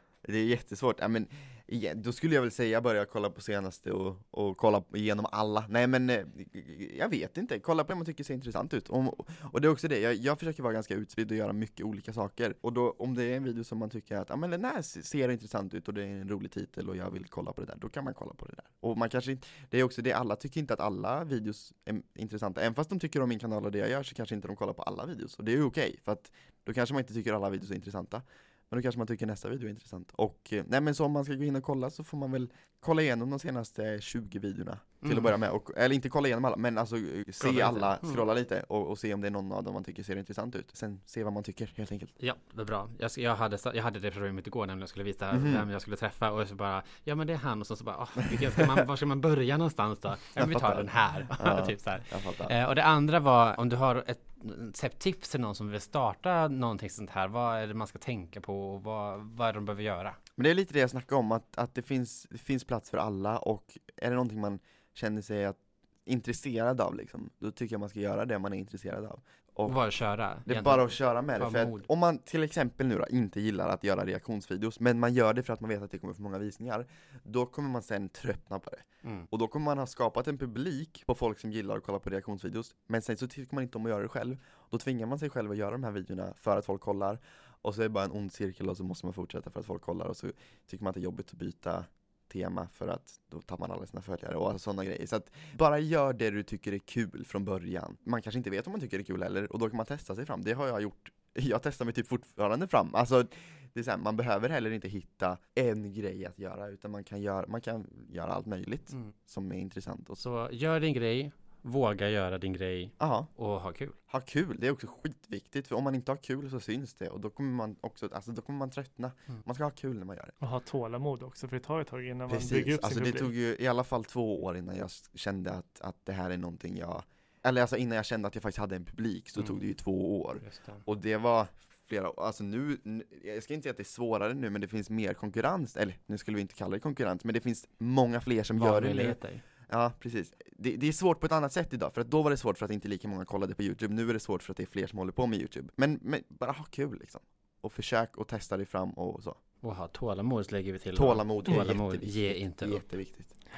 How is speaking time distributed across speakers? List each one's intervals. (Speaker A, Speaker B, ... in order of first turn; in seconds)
Speaker A: 0.2-42.1, 45.3-45.6, 50.4-52.5, 60.4-69.8, 70.5-110.2, 113.0-113.3, 114.1-120.3, 122.3-149.4, 150.9-153.3
Speaker B: 35.0-35.3, 37.4-38.2, 42.2-60.2, 69.7-71.9, 110.2-114.0, 130.4-130.8, 138.6-139.4, 149.6-152.8
Speaker C: 120.4-123.3